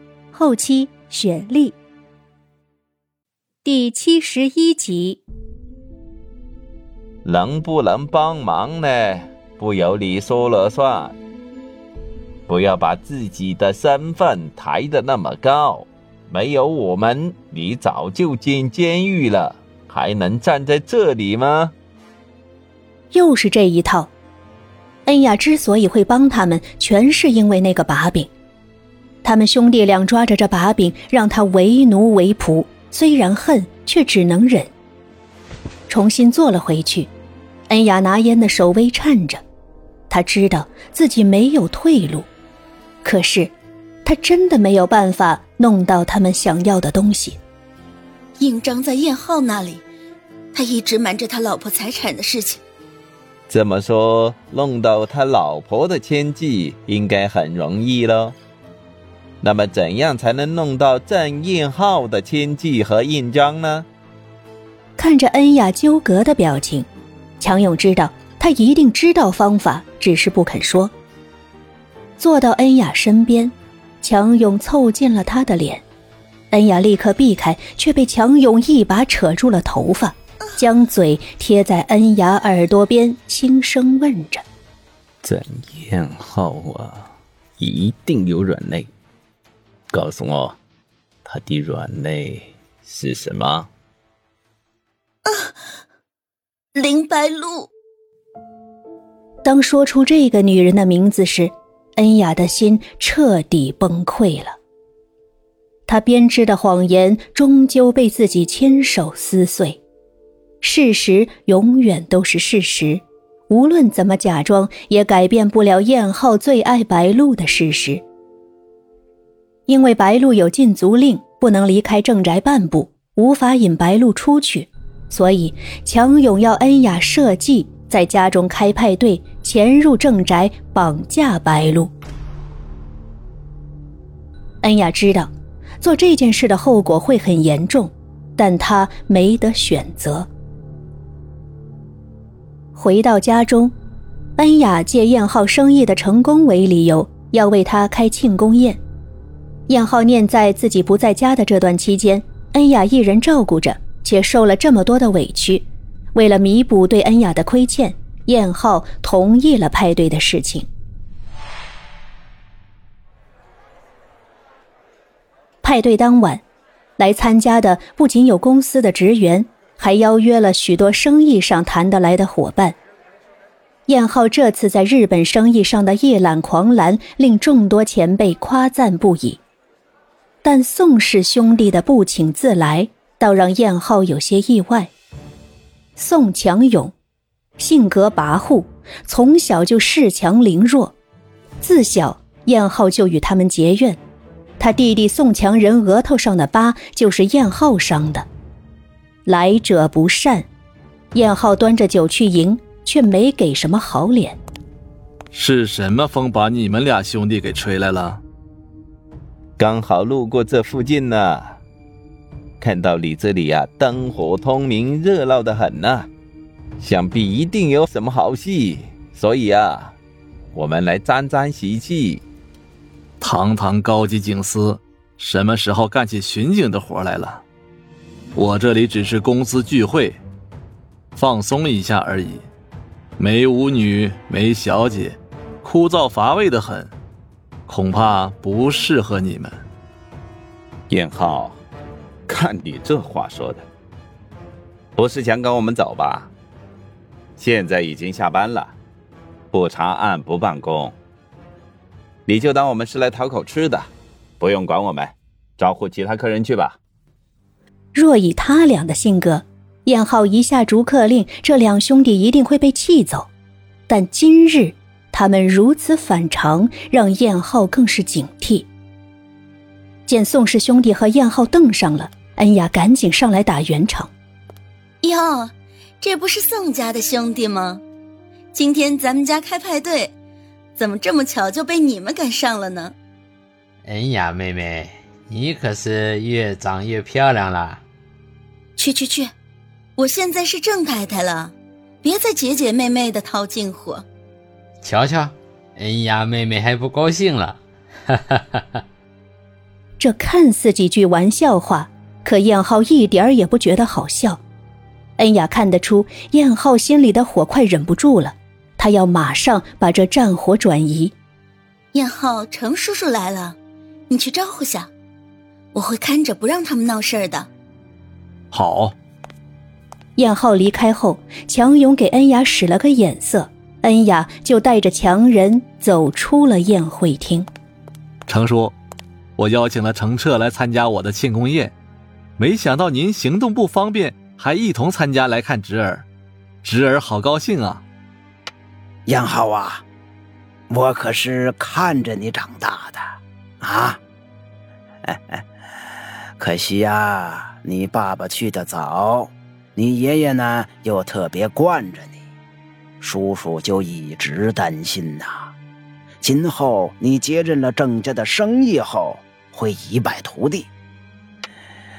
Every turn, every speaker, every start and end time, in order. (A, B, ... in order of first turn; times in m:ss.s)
0:00.3-0:01.8 A
0:03.6-0:05.2 A
0:07.2-0:11.2 B
0:12.5-0:21.7 B
0:23.1-0:24.1 A
0:25.1-0:28.3 A
0:29.2-0:34.7 A
0:35.9-0:37.1 A
0:37.7-0:39.4 A
0:40.1-0:42.3 A
0:43.0-0:43.5 A
0:44.0-0:47.4 A
0:48.4-0:49.8 C
0:50.5-0:52.6 C
0:53.5-0:58.4 B
0:59.4-1:03.9 B
1:05.0-1:06.9 A
1:07.4-1:10.9 A
1:12.2-1:15.8 A
1:16.5-1:24.4 A
1:25.2-1:28.9 B
1:29.9-1:30.6 B
1:31.2-1:33.7 B
1:35.2-1:35.6 C
1:36.8-1:37.7 C
1:39.4-1:44.6 A
1:45.9-1:49.8 A
1:50.6-1:58.0 A
1:59.7-2:11.9 A
2:14.6-2:15.3 A
2:15.8-2:20.3 A
2:22.8-2:23.8 A
2:24.4-2:28.8 A
2:29.7-2:40.7 A
2:45.6-2:46.4 A
2:47.0-2:52.8 A
2:53.9-2:59.4 A
3:00.4-3:04.9 A
3:06.0-3:06.9 A
3:07.6-3:11.0 A
3:11.6-3:14.0 A
3:14.6-3:18.3 A
3:19.3-3:20.5 A
3:21.1-3:24.4 A
3:25.3-3:28.2 D
3:29.6-3:31.6 B
3:32.6-3:36.1 B
3:36.8-3:40.0 B
3:40.5-3:42.2 B
3:43.2-3:47.4 D
3:48.4-3:50.2 D
3:51.2-3:52.4 D
3:53.2-3:56.9 D
3:57.7-3:59.6 D
4:00.9-4:01.6 B
4:02.3-4:03.7 B
4:05.0-4:06.3 B
4:07.4-4:08.8 B
4:09.5-4:11.0 B
4:12.3-4:16.8 B
4:17.9-4:23.3 A
4:23.9-4:28.7 A
4:30.1-4:34.1 A
4:35.0-4:37.8 C
4:38.5-4:40.1 C
4:40.8-4:43.0 C
4:43.8-4:47.8 E
4:48.8-4:49.3 C
4:50.0-4:54.0 C
4:54.8-4:57.6 E
4:58.1-4:58.8 E
5:00.0-5:04.4 A
5:05.2-5:11.2 A
5:11.9-5:13.6 C
5:14.1-5:14.9 C
5:15.7-5:17.5 C
5:18.5-5:18.9 D
5:20.2-5:27.5 A
5:28.3-5:28.8 D
5:29.4-5:31.7 D
5:32.4-5:36.1 D
5:36.6-5:37.8 D
5:39.1-5:39.8 F
5:40.7-5:44.0 F
5:45.0-5:45.4 F
5:46.4-5:52.2 F
5:53.0-5:55.5 F
5:56.2-6:00.7 F